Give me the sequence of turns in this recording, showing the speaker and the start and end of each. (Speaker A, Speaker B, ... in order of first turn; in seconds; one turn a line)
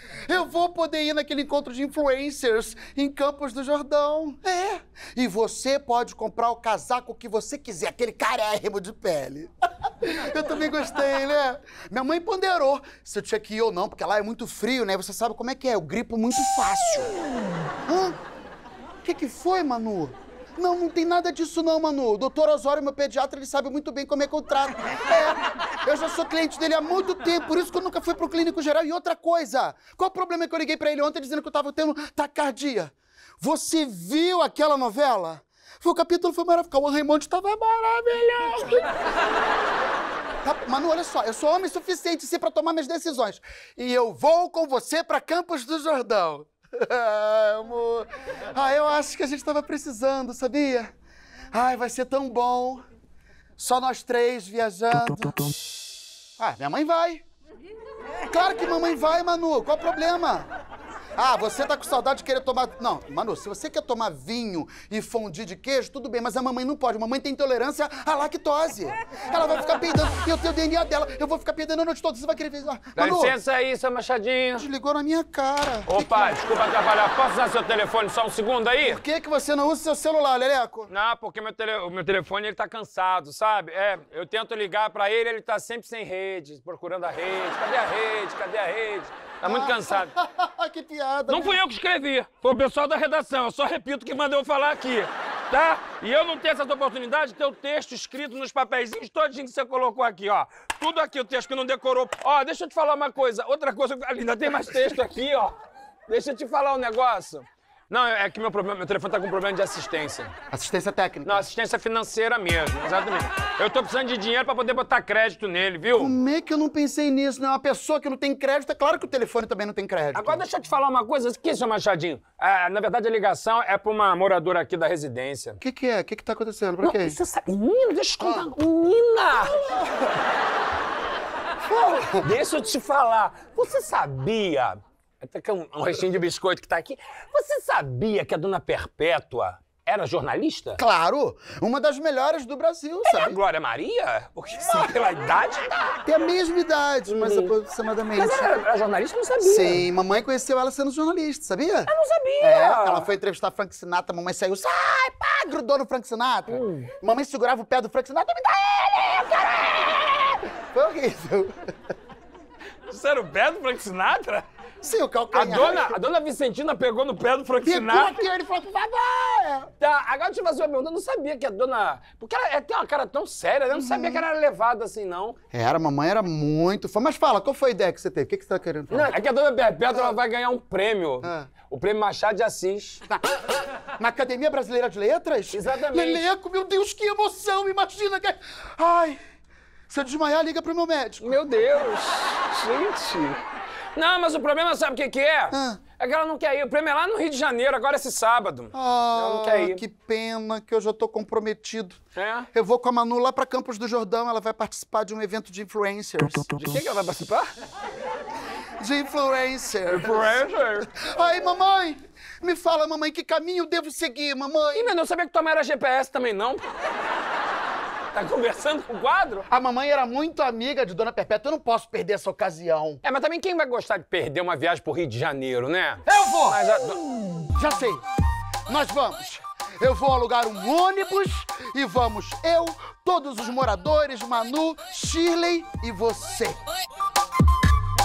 Speaker A: 0.2-17.1
Speaker A: 17.9-18.1
Speaker A: 19.0-38.8
Speaker A: 40.4-50.9
Speaker A: 51.5-52.8
Speaker A: 53.6-55.5
Speaker A: 56.4-57.2
Speaker A: 58.3-60.5
Speaker A: 61.2-73.3
Speaker B: 73.0-74.7
Speaker A: 74.5-76.3
Speaker B: 75.9-79.0
Speaker A: 78.8-80.9
Speaker B: 80.9-90.1
Speaker A: 89.4-91.6
Speaker B: 91.3-105.5
Speaker B: 106.1-110.3
Speaker A: 110.5-111.5
Speaker B: 111.2-116.2
Speaker A: 115.9-120.4
Speaker B: 120.1-125.6
Speaker A: 125.6-127.2
Speaker B: 126.8-129.6
Speaker A: 128.2-128.5
Speaker A: 129.4-130.2
Speaker A: 131.6-132.2
Speaker B: 132.1-140.8
Speaker A: 140.8-143.4
Speaker B: 143.0-146.0
Speaker A: 146.1-148.5
Speaker B: 147.1-147.5
Speaker B: 148.2-149.8
Speaker A: 149.4-159.4
Speaker B: 151.9-153.1
Speaker B: 156.5-156.9
Speaker B: 159.2-160.4
Speaker A: 160.6-161.7
Speaker B: 162.9-164.4
Speaker A: 164.8-165.9
Speaker B: 165.3-168.2
Speaker A: 167.6-169.7
Speaker B: 169.8-175.3
Speaker A: 173.7-174.2
Speaker A: 175.5-179.1
Speaker B: 178.9-183.0
Speaker A: 181.2-181.5
Speaker A: 184.0-189.2
Speaker B: 185.5-186.3
Speaker A: 189.9-191.4
Speaker B: 191.2-193.4
Speaker B: 193.9-199.8
Speaker A: 195.5-195.8
Speaker A: 198.7-202.0
Speaker B: 202.1-202.5
Speaker A: 202.5-206.8
Speaker B: 206.5-207.5
Speaker A: 208.8-214.9
Speaker B: 209.9-210.9
Speaker B: 214.7-216.6
Speaker B: 218.1-219.4
Speaker A: 219.5-223.0
Speaker B: 223.0-227.0
Speaker A: 226.1-226.6
Speaker A: 227.5-228.0
Speaker A: 228.7-236.6